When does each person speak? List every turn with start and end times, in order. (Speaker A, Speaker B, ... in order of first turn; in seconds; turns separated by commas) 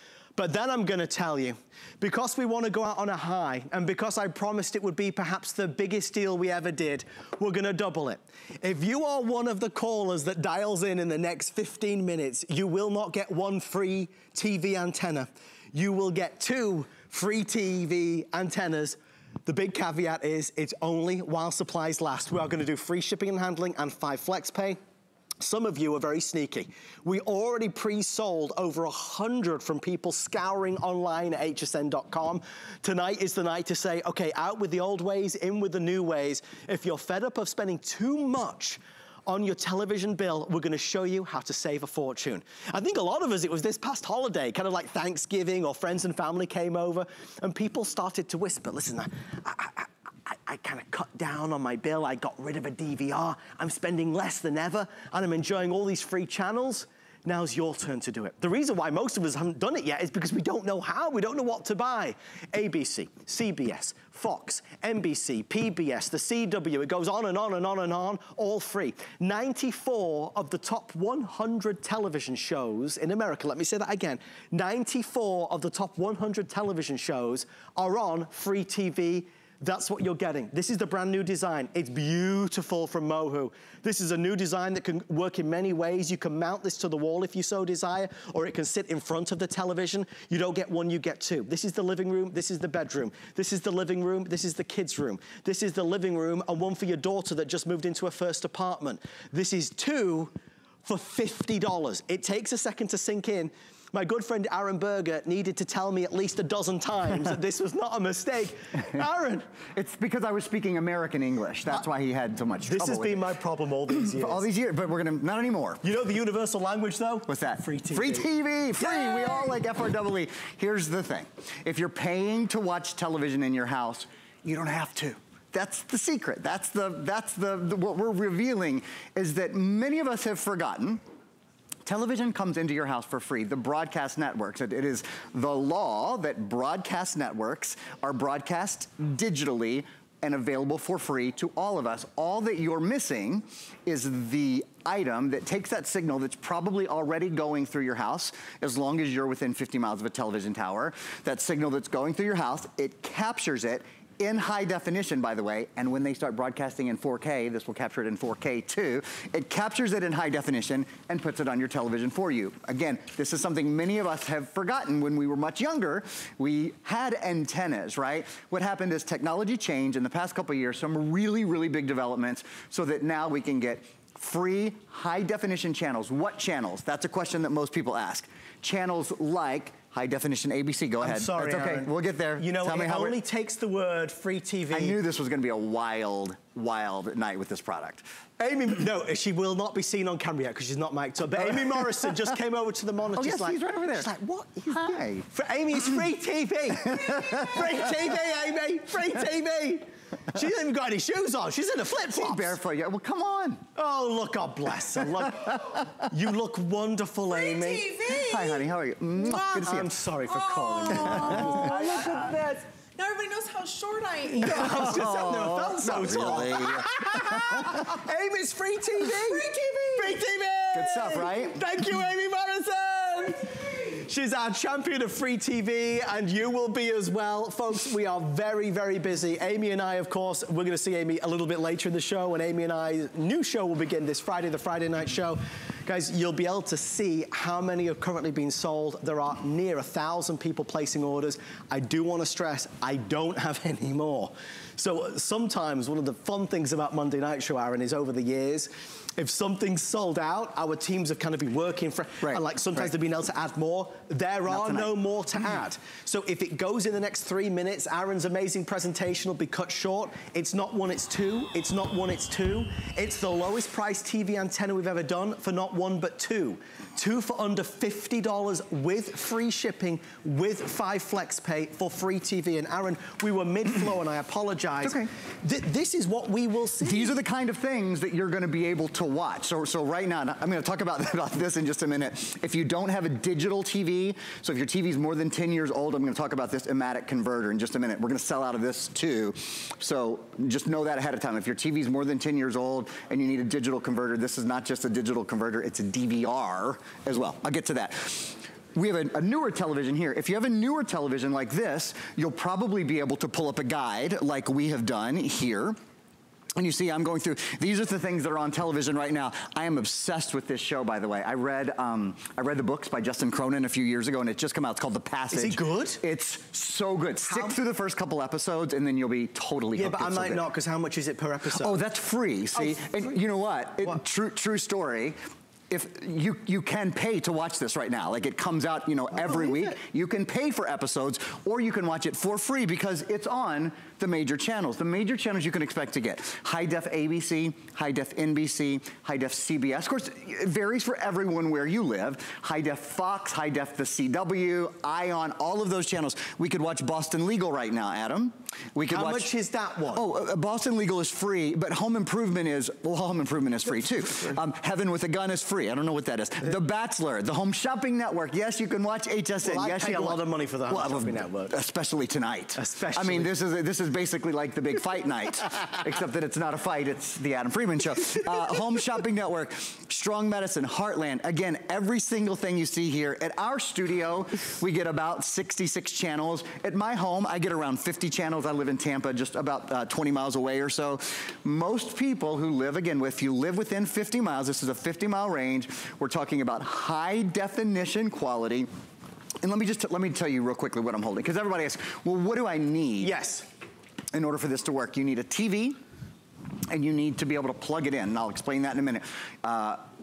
Speaker A: 0.3-24.8, Speaker A: 25.4-100.3, Speaker A: 100.8-109.5, Speaker B: 109.7-113.2, Speaker A: 112.7-114.5, Speaker B: 113.9-115.8, Speaker A: 115.8-118.3, Speaker B: 117.3-131.0, Speaker B: 131.8-183.2, Speaker A: 181.0-185.0, Speaker B: 184.7-188.0, Speaker A: 188.4-202.6, Speaker B: 193.1-194.1, Speaker B: 194.7-195.3, Speaker B: 197.4-197.7, Speaker B: 202.1-203.6, Speaker A: 203.7-208.0, Speaker C: 207.3-208.6, Speaker B: 208.2-209.9, Speaker A: 209.2-212.6, Speaker C: 210.2-215.0, Speaker B: 210.9-211.6, Speaker A: 214.4-277.2, Speaker B: 214.4-217.8, Speaker C: 219.0-220.3, Speaker B: 220.7-221.6, Speaker B: 254.5-254.9, Speaker B: 274.8-275.1, Speaker B: 276.8-305.8, Speaker B: 306.6-320.4, Speaker A: 315.3-316.0, Speaker A: 317.2-317.6, Speaker A: 319.7-321.8, Speaker B: 321.6-325.1, Speaker A: 322.6-322.9, Speaker B: 325.7-349.3, Speaker A: 329.4-329.7, Speaker A: 348.9-350.0, Speaker B: 349.9-388.7, Speaker A: 359.4-361.6, Speaker A: 362.6-363.3, Speaker B: 389.4-393.1, Speaker A: 393.0-393.4, Speaker B: 394.1-395.8, Speaker B: 396.7-399.8